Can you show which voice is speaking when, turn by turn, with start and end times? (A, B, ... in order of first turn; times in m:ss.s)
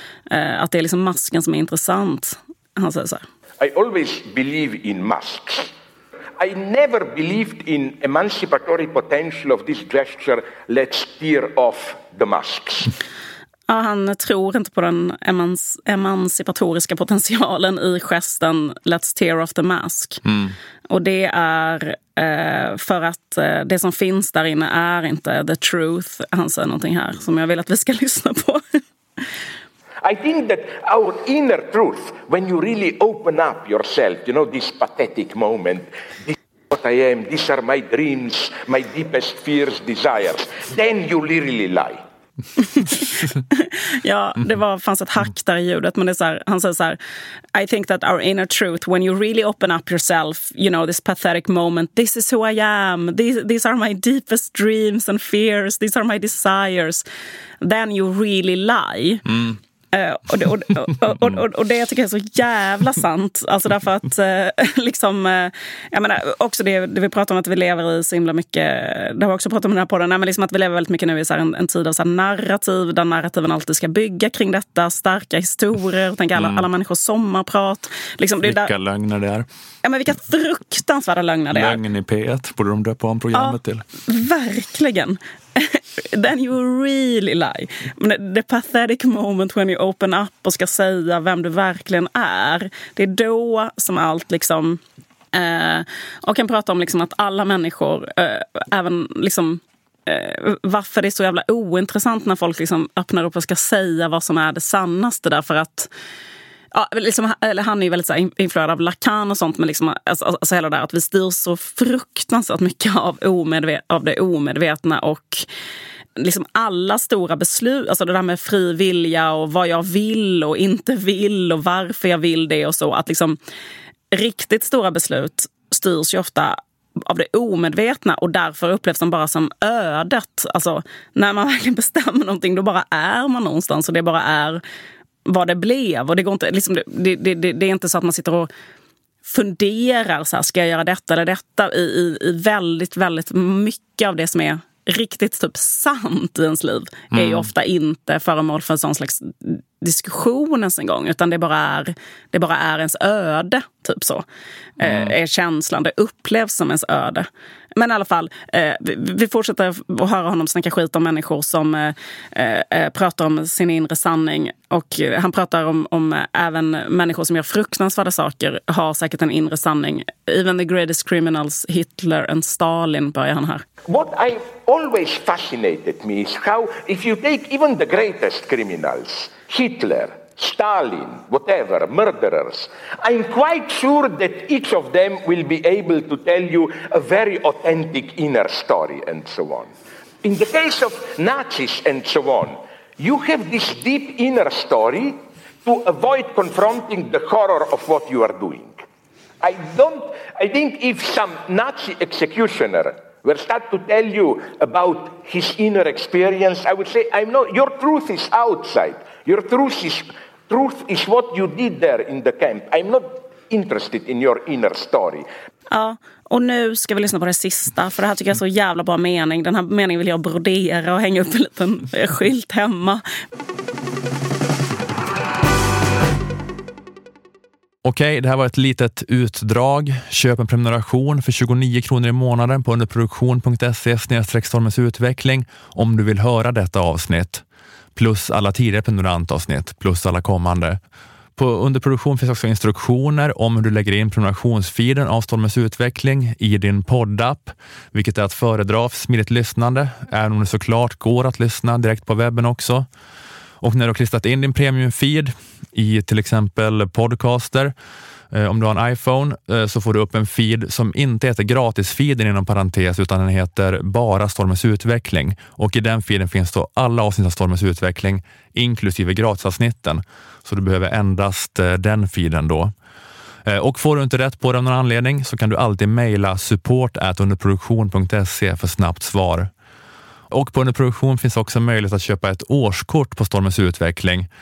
0:00.3-0:03.2 A
0:03.6-0:05.7 B
0:06.4-0:12.9 B
0:13.7-0:28.8 A
0:30.0-0:42.0 B
0:42.6-0:47.0 A
0:47.5-0:57.0 A
0:57.6-1:18.7 A
1:16.4-1:16.7 C
1:18.4-1:19.4 C
1:19.8-1:21.8 A
1:21.5-1:23.8 C
1:23.3-1:34.8 A
1:35.3-1:45.9 A
1:46.7-1:55.4 A
1:56.2-2:03.4 A
2:04.1-2:14.6 A
2:15.2-2:18.5 A
2:19.2-2:34.2 A
2:27.1-2:27.4 C
2:34.8-2:53.6 A
2:53.9-3:09.7 B
3:10.2-3:18.8 B
3:19.4-3:35.2 B
3:35.7-3:43.0 A
3:47.8-3:57.4 C
3:58.0-4:00.8 C
4:01.4-4:12.9 C
4:13.6-4:17.7 C
4:18.3-4:32.7 C
4:33.5-4:39.5 C
4:40.3-4:44.3 C